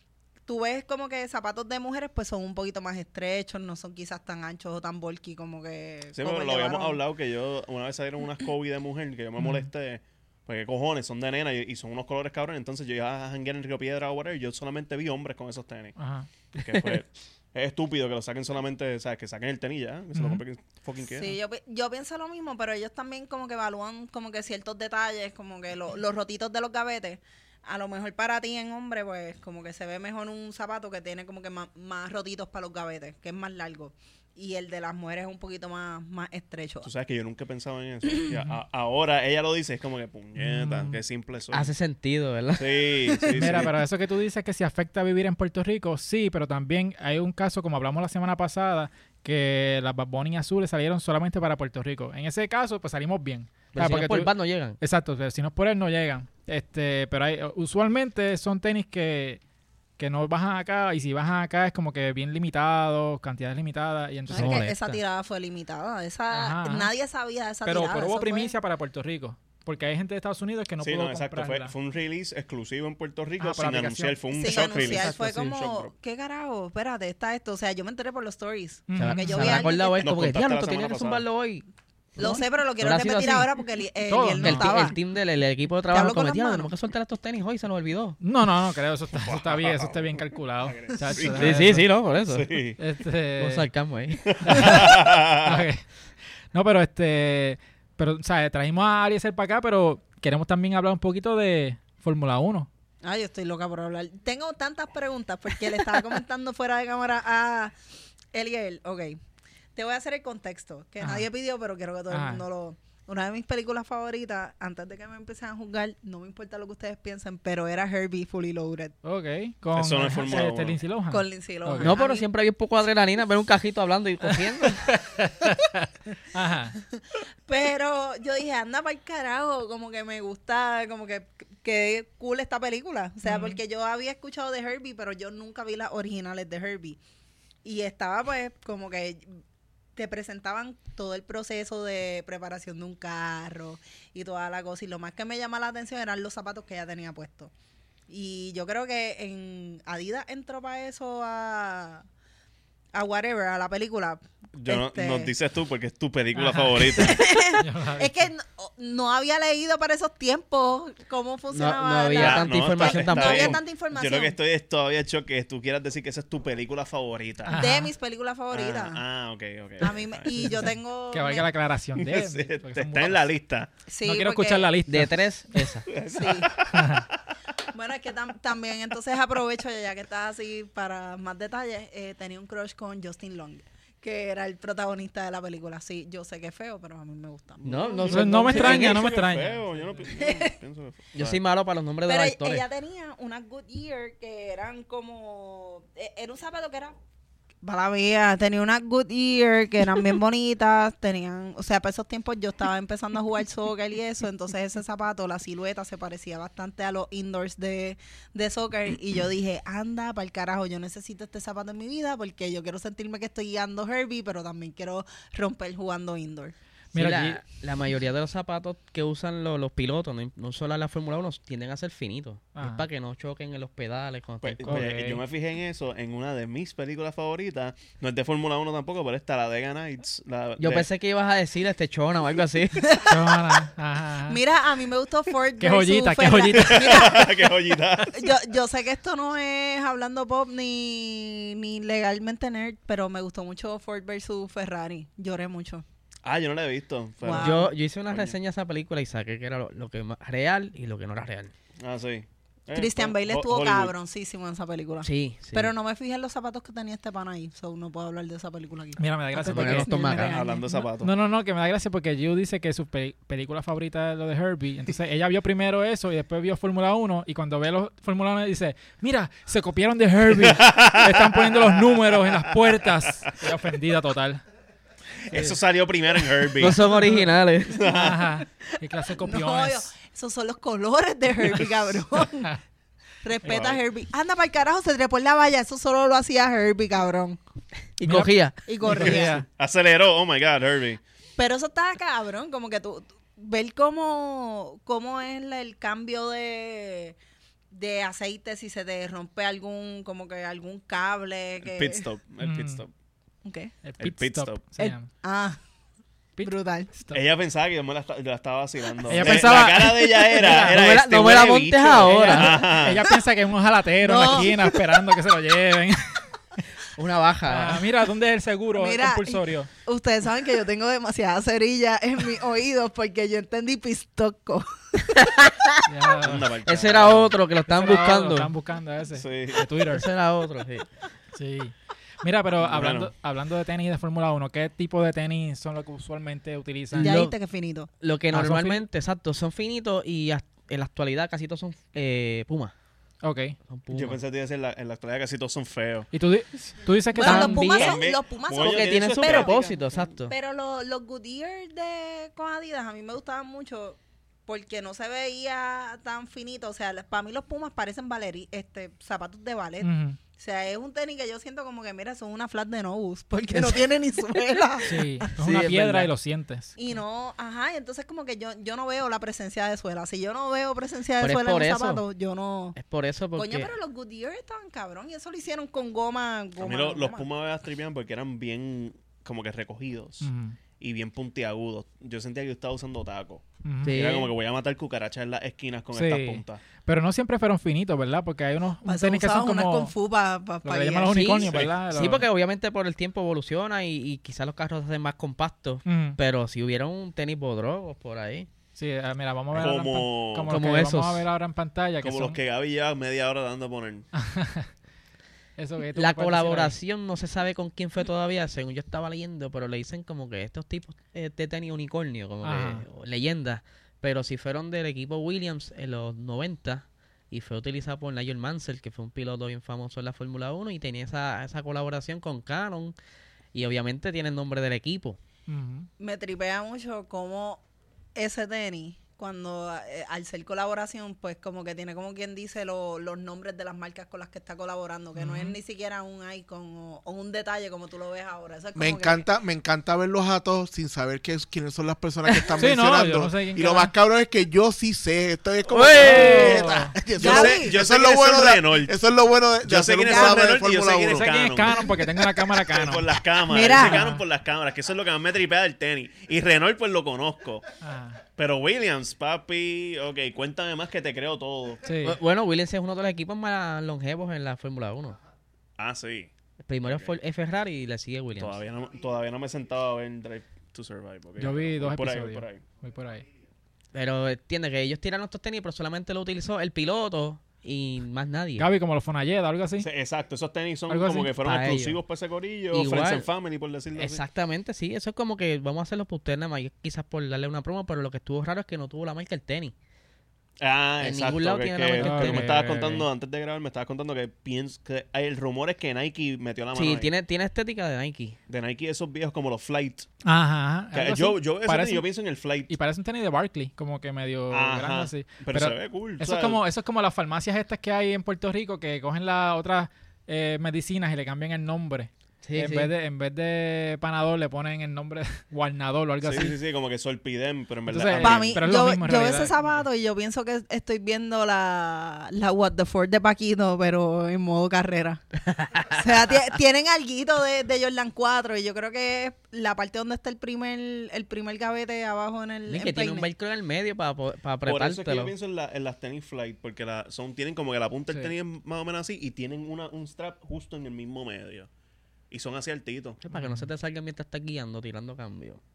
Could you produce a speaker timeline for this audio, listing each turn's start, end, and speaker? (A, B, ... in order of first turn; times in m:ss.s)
0:00.5-0:07.0 A
0:06.1-0:15.9 B
0:09.4-0:09.7 C
0:16.0-0:16.3 C
0:16.5-0:21.4 B
0:20.1-0:20.4 C
0:21.0-0:36.9 A
0:36.8-0:41.7 B
0:40.4-0:41.0 C
0:41.5-0:42.8 D
0:42.6-0:43.7 B
0:43.3-0:59.4 C
0:53.7-0:54.8 D
1:00.0-1:04.6 C
1:04.3-1:08.5 A
1:04.3-1:05.0 D
1:06.3-1:06.9 C
1:07.6-1:11.7 C
1:10.8-1:15.9 B
1:13.4-1:15.4 C
1:14.3-1:20.1 A
1:18.9-1:19.6 C
1:19.0-1:21.6 D
1:20.0-1:21.2 B
1:22.2-1:23.5 D
1:22.2-1:25.0 A
1:24.1-1:24.7 C
1:24.4-1:28.2 D
1:25.9-1:26.7 A
1:28.2-1:31.9 C
1:29.2-1:31.7 B
1:31.2-1:32.5 D
1:32.3-1:32.8 B
1:32.8-1:33.7 C
1:33.4-1:34.8 D
1:34.2-1:35.6 B
1:34.4-1:35.8 C
1:36.5-1:42.7 C
1:43.0-1:47.7 A
1:48.3-1:49.2 A
1:49.7-1:58.9 A
1:51.0-1:51.3 C
1:52.1-1:52.4 C
1:59.0-2:02.0 C
1:59.7-2:00.8 B
2:01.1-2:02.3 A
2:01.8-2:04.9 D
2:04.3-2:06.8 C
2:06.9-2:17.0 A
2:13.2-2:13.6 C
2:17.6-2:19.3 A
2:19.9-2:27.5 A
2:28.1-2:32.0 A
2:32.9-2:35.3 A
2:34.5-2:37.2 B
2:36.3-2:38.2 C
2:36.9-2:44.4 A
2:41.5-2:43.6 D
2:42.1-2:47.6 B
2:47.4-2:47.9 C
2:47.5-2:49.0 A
2:48.5-2:50.7 B
2:49.8-2:51.5 A
2:51.1-2:53.3 C
2:51.9-2:53.7 B
2:53.9-2:54.7 A
2:54.0-2:55.7 C
2:54.9-2:55.9 D
2:55.9-2:57.3 B
2:56.1-2:56.6 A
2:56.7-2:57.1 C
2:57.7-3:08.2 A
3:07.6-3:11.4 B
3:07.6-3:09.2 D
3:08.1-3:10.1 C
3:10.1-3:10.5 A
3:11.1-3:12.6 D
3:12.1-3:17.0 A
3:17.6-3:36.5 A
3:36.9-3:37.4 C
3:36.9-3:44.9 D
3:42.6-3:42.8 C
3:44.4-3:50.9 B
3:44.6-3:45.2 C
3:50.6-3:52.9 D
3:52.8-3:53.4 A
3:53.0-3:54.4 C
3:54.3-3:57.5 A
3:55.6-3:57.1 C
3:56.6-3:58.4 B
3:58.1-4:05.8 A
4:06.2-4:08.4 B
4:07.2-4:07.7 A
4:07.3-4:11.5 D
4:11.8-4:13.9 B
4:12.7-4:20.7 A
4:15.0-4:15.7 D
4:19.0-4:34.4 C
4:19.4-4:20.4 D
4:20.2-4:21.1 B
4:30.3-4:33.1 B
4:35.2-4:36.8 B
4:35.3-4:35.6 C
4:36.6-4:37.9 D
4:36.6-4:37.3 C
4:37.7-4:38.4 B
4:37.8-4:39.9 C
4:39.1-4:42.6 A
4:43.2-4:47.4 A
4:43.4-4:43.8 B
4:48.0-4:48.6 D
4:48.0-4:49.4 C
4:48.6-4:49.4 A
4:48.8-4:51.0 B
4:51.4-4:57.2 A
4:57.7-5:02.0 A
5:01.6-5:02.9 B
5:02.4-5:02.8 C
5:03.4-5:03.7 A
5:03.8-5:05.1 C
5:04.0-5:04.6 B
5:04.8-5:05.6 A
5:06.4-5:07.2 C
5:06.4-5:06.9 A
5:07.1-5:13.1 B
5:09.0-5:10.8 C
5:10.6-5:12.6 D
5:12.0-5:16.2 C
5:14.0-5:14.8 A
5:17.0-5:17.8 D
5:17.5-5:19.7 C
5:18.7-5:25.3 A
5:25.9-5:26.5 C
5:26.2-5:27.4 B
5:26.6-5:28.5 D
5:27.7-5:30.0 C
5:29.2-5:29.6 B
5:29.9-5:30.9 D
5:31.3-5:37.2 C
5:32.6-5:33.1 B
5:36.9-5:37.3 D
5:37.0-5:37.9 A
5:38.0-5:42.7 D
5:38.3-5:38.8 C
5:43.2-5:43.6 C
5:43.7-5:44.2 D
5:43.9-5:46.1 B
5:46.1-5:48.0 C
5:47.1-6:05.3 A
5:47.2-5:47.6 D
5:47.3-5:49.5 B
5:48.5-5:50.3 D
5:59.8-6:00.2 C
6:03.5-6:03.8 D
6:04.8-6:06.8 C
6:05.4-6:06.1 D
6:06.8-6:12.8 A
6:11.2-6:12.0 D
6:12.8-6:13.7 D
6:13.4-6:17.3 A
6:16.6-6:26.6 B
6:20.2-6:20.6 C
6:23.6-6:24.0 C
6:23.8-6:24.3 D
6:25.9-6:29.9 C
6:28.8-6:31.3 A
6:30.6-6:32.2 C
6:31.1-6:38.5 D
6:31.4-6:31.8 B
6:35.8-6:36.2 C
6:38.7-6:42.4 C
6:39.5-6:40.6 B
6:40.5-6:41.3 D
6:42.0-6:44.1 B
6:44.2-6:44.7 C
6:45.6-6:46.8 C
6:46.0-7:02.9 D
6:52.4-6:52.8 C
7:03.5-7:05.2 D
7:05.5-7:05.9 C
7:06.0-7:07.6 A
7:08.2-7:19.2 A
7:15.2-7:15.6 C
7:18.8-7:31.2 E
7:22.2-7:22.6 D
7:22.6-7:23.9 C
7:25.7-7:26.7 D
7:26.0-7:26.9 C
7:27.2-7:27.7 A
7:27.2-7:28.9 B
7:29.6-7:37.6 B
7:30.1-7:30.4 A
7:31.0-7:33.1 C
7:33.4-7:34.1 A
7:33.7-7:34.2 C
7:37.8-7:38.2 C
7:38.4-7:41.8 B
7:41.8-7:42.2 C
7:42.0-7:45.2 D
7:45.8-7:46.3 B
7:46.6-7:48.6 D
7:46.8-7:47.1 B
7:48.4-7:52.6 B
7:51.4-7:53.2 C
7:53.9-7:58.7 D
7:58.6-7:59.9 C
7:59.8-8:04.2 B
8:00.9-8:01.3 C
8:01.4-8:02.0 D
8:02.7-8:03.3 D
8:04.0-8:09.7 D
8:10.6-8:17.1 B
8:11.0-8:12.5 D
8:12.0-8:13.1 C
8:16.7-8:18.4 D
8:18.5-8:20.1 B
8:20.2-8:22.0 C
8:20.9-8:22.7 B
8:22.7-8:36.6 C
8:24.5-8:26.6 B
8:32.4-8:32.9 D
8:36.2-8:38.6 B
8:37.9-8:39.8 C
8:38.2-8:45.3 A
8:45.6-8:46.0 D
8:45.9-8:53.3 A
8:52.7-8:55.3 D
8:54.6-9:01.7 B
9:02.3-9:03.2 B
9:03.2-9:05.6 D
9:03.3-9:03.7 C